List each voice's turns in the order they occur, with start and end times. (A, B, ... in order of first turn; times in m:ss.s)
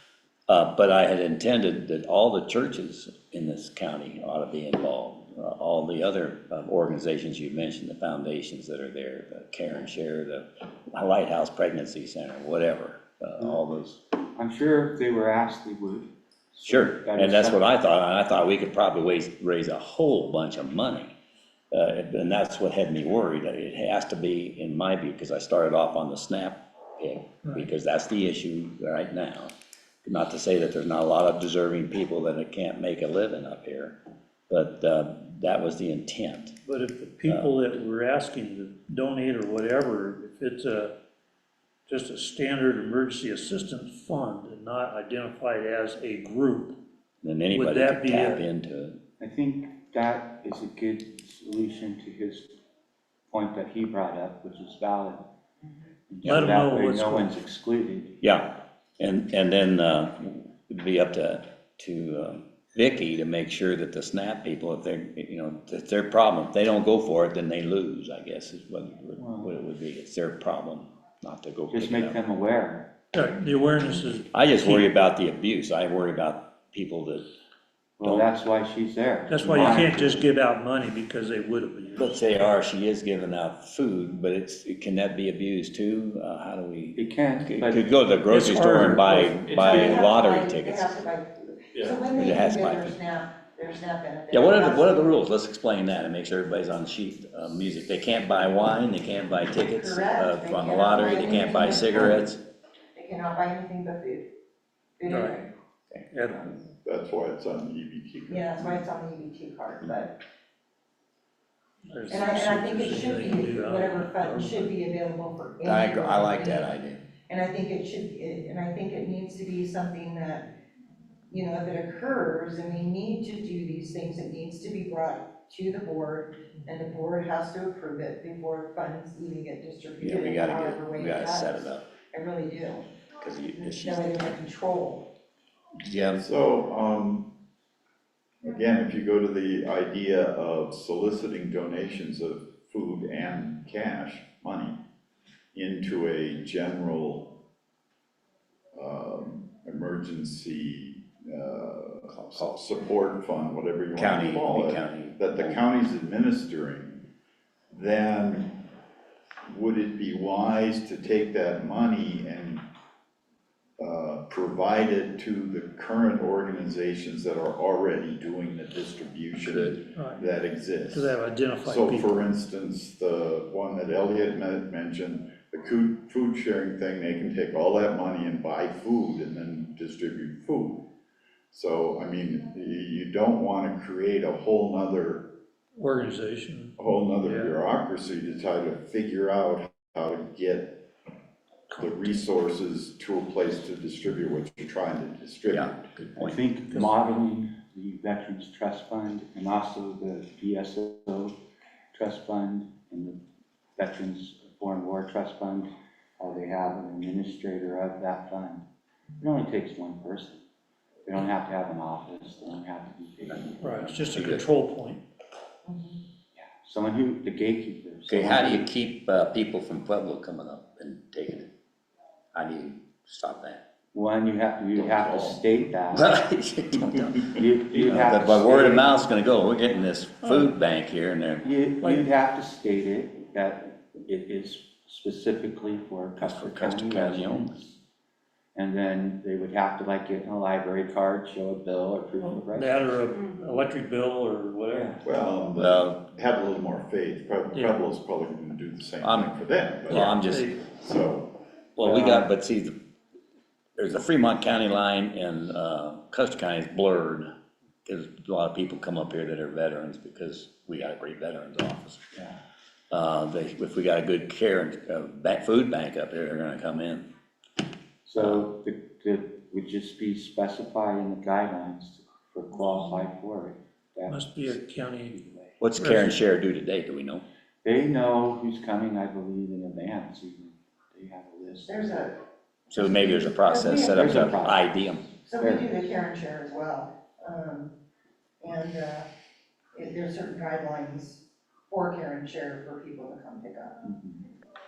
0:00.5-0:14.0 A
0:14.3-0:17.7 B
0:16.6-0:21.1 A
0:21.7-0:29.5 A
0:30.0-0:34.0 A
0:34.5-0:36.6 A
0:36.6-0:40.9 C
0:37.2-0:37.5 A
0:41.9-0:46.8 C
0:47.2-0:49.0 A
0:47.5-0:48.4 C
0:49.2-0:52.6 B
0:53.3-0:55.3 B
0:56.1-0:58.2 B
0:56.2-0:57.3 C
0:58.2-1:12.2 A
1:09.2-1:09.5 B
1:11.7-1:12.9 B
1:13.1-1:14.9 C
1:14.3-1:17.3 A
1:18.0-1:20.3 B
1:19.3-1:22.2 C
1:22.0-1:31.0 A
1:26.9-1:28.0 B
1:28.3-1:29.5 C
1:29.5-1:35.1 D
1:32.1-1:33.0 A
1:34.3-1:42.4 A
1:39.6-1:42.2 D
1:42.9-1:44.3 D
1:45.0-1:45.5 D
1:45.1-1:45.4 C
1:46.1-1:46.6 C
1:46.8-1:48.8 E
1:48.3-1:50.2 D
1:51.9-1:54.7 C
1:52.1-1:56.7 D
1:55.6-1:57.0 A
1:57.3-2:00.5 D
2:01.3-2:12.9 D
2:10.0-2:11.9 A
2:13.2-2:14.4 A
2:13.5-2:15.1 D
2:15.8-2:16.2 A
2:16.2-2:17.3 E
2:18.4-2:24.8 E
2:25.5-2:27.4 E
2:28.7-2:37.0 E
2:32.1-2:32.6 A
2:34.0-2:35.6 A
2:37.7-2:38.6 E
2:39.5-2:42.6 E
2:43.8-3:00.9 E
2:49.4-2:49.8 A
2:49.9-2:50.2 C
2:50.9-2:52.2 C
3:01.5-3:05.3 E
3:05.7-3:07.6 C
3:06.8-3:10.8 E
3:11.8-3:15.9 E
3:15.5-3:16.4 A
3:16.2-3:21.3 B
3:16.7-3:16.9 C
3:21.9-3:23.2 B
3:23.8-3:28.6 B
3:29.2-3:30.4 B
3:31.0-3:33.8 B
3:33.6-3:35.0 C
3:33.6-3:34.4 A
3:35.6-3:36.0 D
3:36.3-3:38.7 B
3:38.1-3:41.5 A
3:42.3-3:43.6 A
3:43.9-3:46.2 B
3:44.8-3:45.4 E
3:45.9-3:51.4 A
3:47.2-3:49.0 B
3:51.4-3:57.8 B
3:51.8-3:52.0 C
3:56.2-3:57.6 A
3:58.5-4:02.8 B
4:02.2-4:05.0 C
4:04.7-4:05.0 B
4:05.0-4:11.4 E
4:05.6-4:06.0 A
4:07.5-4:07.8 C
4:09.0-4:09.3 A
4:09.9-4:10.5 A
4:09.9-4:10.6 C
4:11.8-4:12.8 A
4:11.8-4:12.3 B
4:13.8-4:17.3 A
4:17.8-4:22.0 A
4:22.9-4:27.1 A
4:28.0-4:35.6 B
4:28.2-4:28.5 A
4:34.1-4:35.2 C
4:35.6-4:37.2 A
4:35.8-4:36.1 C
4:37.6-4:42.1 B
4:41.6-4:42.1 D
4:42.7-4:45.1 A
4:42.7-4:44.4 D
4:43.7-4:45.7 B
4:45.2-4:47.7 D
4:48.4-4:49.1 D
4:49.7-4:53.8 D
4:53.8-4:54.3 B